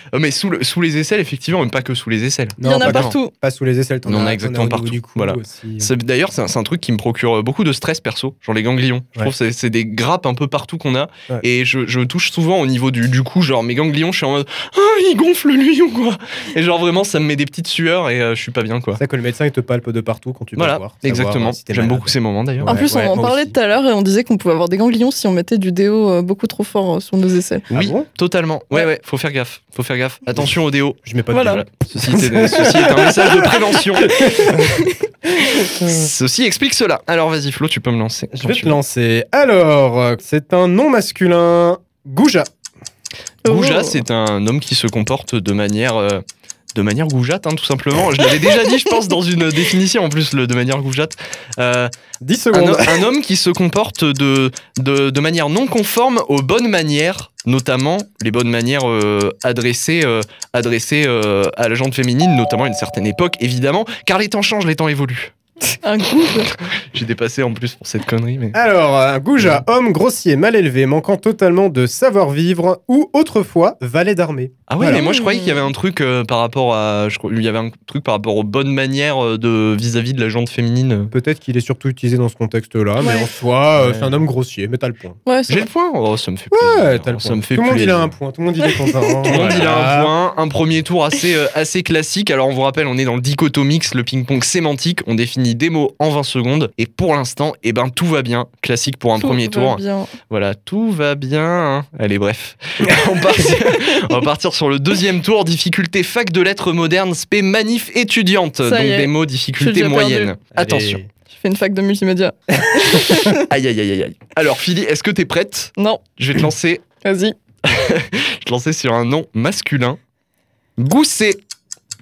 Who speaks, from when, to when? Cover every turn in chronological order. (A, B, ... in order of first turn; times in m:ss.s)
0:00.1-0:03.2 A
0:02.6-0:05.9 B
0:02.6-0:03.3 C
0:04.0-0:19.0 A
0:19.0-0:23.6 B
0:20.6-0:22.9 A
0:22.6-0:27.6 C
0:27.7-0:34.5 A
0:27.7-0:28.1 B
0:31.0-0:34.8 B
0:31.3-0:31.6 C
0:33.0-0:33.5 C
0:34.2-0:34.9 C
0:35.4-0:36.1 B
0:35.7-0:38.8 A
0:38.3-0:42.5 B
0:43.4-0:44.0 C
0:43.4-0:46.2 A
0:46.7-0:51.9 A
0:52.2-0:53.0 B
0:52.5-1:05.3 A
1:05.7-1:06.5 C
1:06.9-1:08.6 A
1:08.5-1:15.0 B
1:14.7-1:21.1 A
1:14.8-1:15.7 C
1:21.1-1:25.2 B
1:23.0-1:23.3 C
1:23.8-1:24.2 A
1:25.2-1:25.6 C
1:25.5-1:28.2 A
1:26.5-1:30.1 B
1:28.8-1:29.1 C
1:29.3-1:51.0 A
1:39.2-1:40.1 C
1:48.6-1:50.3 C
1:50.5-1:51.1 B
1:51.3-1:53.4 C
1:53.5-1:56.8 A
1:55.8-1:56.0 C
1:57.0-1:57.4 C
1:57.6-2:00.0 A
2:00.8-2:01.4 A